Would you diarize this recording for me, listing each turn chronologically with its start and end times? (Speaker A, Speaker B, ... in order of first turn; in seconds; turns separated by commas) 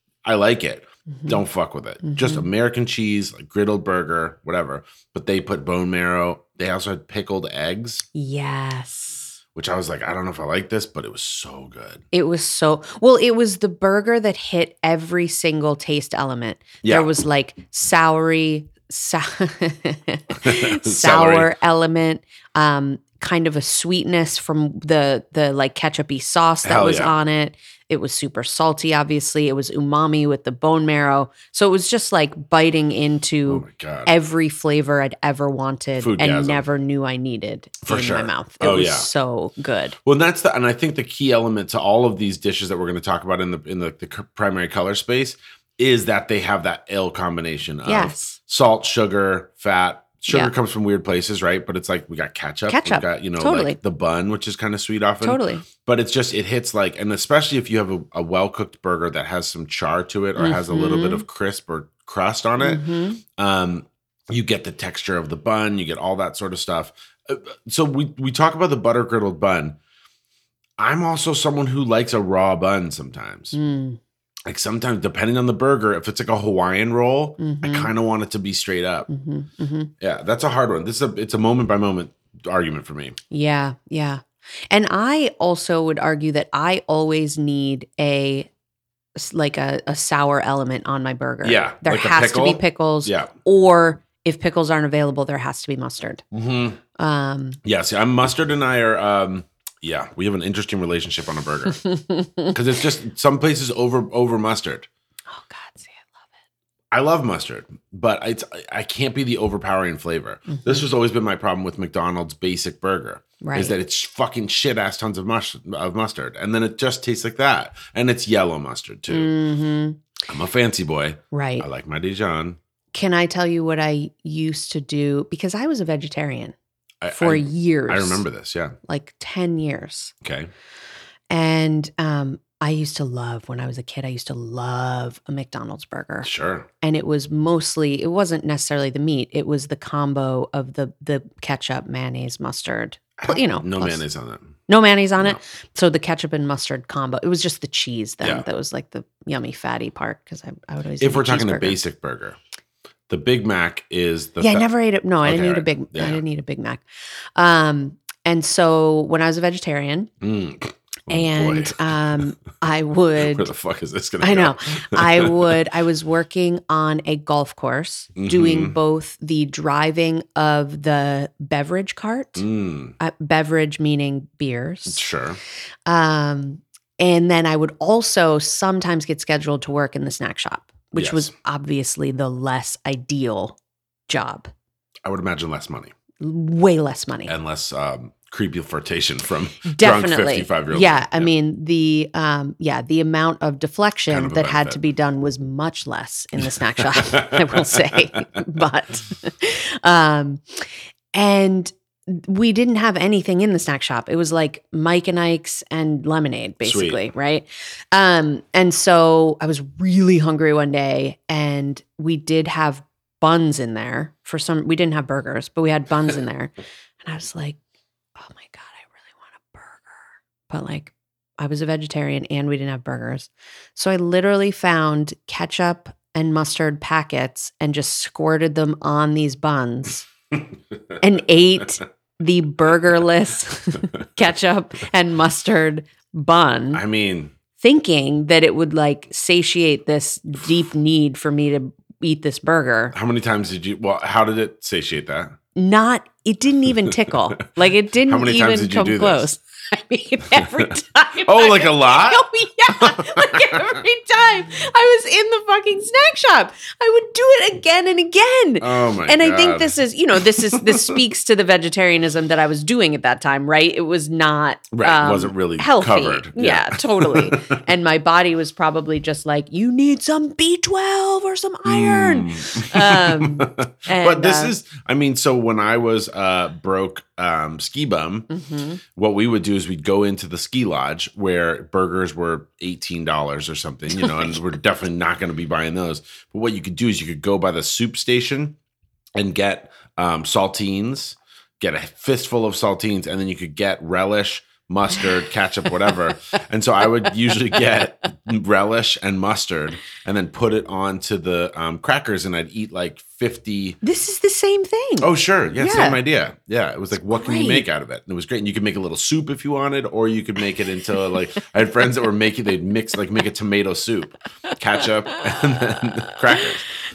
Speaker A: 0.2-8.1, Speaker B: 1.1-1.4, Speaker B: 2.0-2.5, Speaker B: 8.2-9.4, Speaker A: 9.6-12.0, Speaker B: 12.1-40.0, Speaker A: 16.8-17.1, Speaker A: 20.4-21.5, Speaker A: 26.6-27.1, Speaker A: 33.5-34.1, Speaker A: 36.0-36.6, Speaker A: 37.8-39.1, Speaker A: 40.0-62.9, Speaker B: 47.9-48.4, Speaker B: 52.7-53.8, Speaker B: 55.2-55.6, Speaker B: 60.4-61.2, Speaker B: 62.6-63.2, Speaker A: 63.4-69.8, Speaker A: 70.8-73.6, Speaker B: 73.5-74.0, Speaker A: 74.5-79.1, Speaker B: 77.4-77.9, Speaker B: 79.1-79.9, Speaker A: 80.0-83.2, Speaker B: 83.3-88.5, Speaker B: 89.2-96.2, Speaker A: 91.4-93.3, Speaker A: 96.3-96.8, Speaker B: 97.0-97.6, Speaker A: 97.6-101.8, Speaker B: 101.8-102.5, Speaker A: 102.5-104.9, Speaker B: 105.3-106.2, Speaker A: 106.9-119.3, Speaker B: 110.5-110.9, Speaker B: 113.4-113.8, Speaker B: 119.1-120.0, Speaker A: 120.3-122.6, Speaker B: 121.3-121.7, Speaker B: 122.9-126.5, Speaker A: 127.0-128.8, Speaker B: 127.1-128.2, Speaker B: 128.9-130.1, Speaker A: 130.2-130.5, Speaker B: 131.3-136.3, Speaker A: 136.2-136.7, Speaker B: 136.8-144.0, Speaker A: 143.2-144.6, Speaker B: 144.7-151.8, Speaker A: 151.0-152.4, Speaker A: 153.1-154.7, Speaker B: 154.4-156.8, Speaker A: 155.2-156.2, Speaker B: 157.4-160.1, Speaker A: 160.2-162.2, Speaker B: 161.1-163.5, Speaker A: 163.2-165.6, Speaker B: 164.2-172.4, Speaker A: 168.2-168.8, Speaker A: 172.4-173.0, Speaker B: 173.0-175.1, Speaker A: 174.9-175.4, Speaker B: 175.9-183.6, Speaker A: 181.0-181.3, Speaker B: 184.1-184.5, Speaker A: 185.1-185.9, Speaker B: 186.2-187.3, Speaker A: 187.3-191.3, Speaker B: 189.7-217.6, Speaker A: 194.1-194.8, Speaker A: 196.5-198.4, Speaker A: 206.6-207.0, Speaker B: 218.2-230.1, Speaker B: 231.0-236.8, Speaker A: 236.7-237.3, Speaker B: 237.6-242.9, Speaker A: 242.9-245.4, Speaker B: 245.6-274.5, Speaker A: 248.1-249.3, Speaker A: 250.4-250.7, Speaker A: 251.2-253.8, Speaker A: 258.6-259.8, Speaker A: 260.3-261.0, Speaker A: 264.7-267.6, Speaker A: 271.7-278.3, Speaker B: 278.3-278.8, Speaker A: 279.0-288.6, Speaker B: 284.0-284.4, Speaker A: 289.2-303.8, Speaker B: 303.8-306.0, Speaker A: 305.0-316.7, Speaker B: 307.1-307.7, Speaker B: 314.5-316.5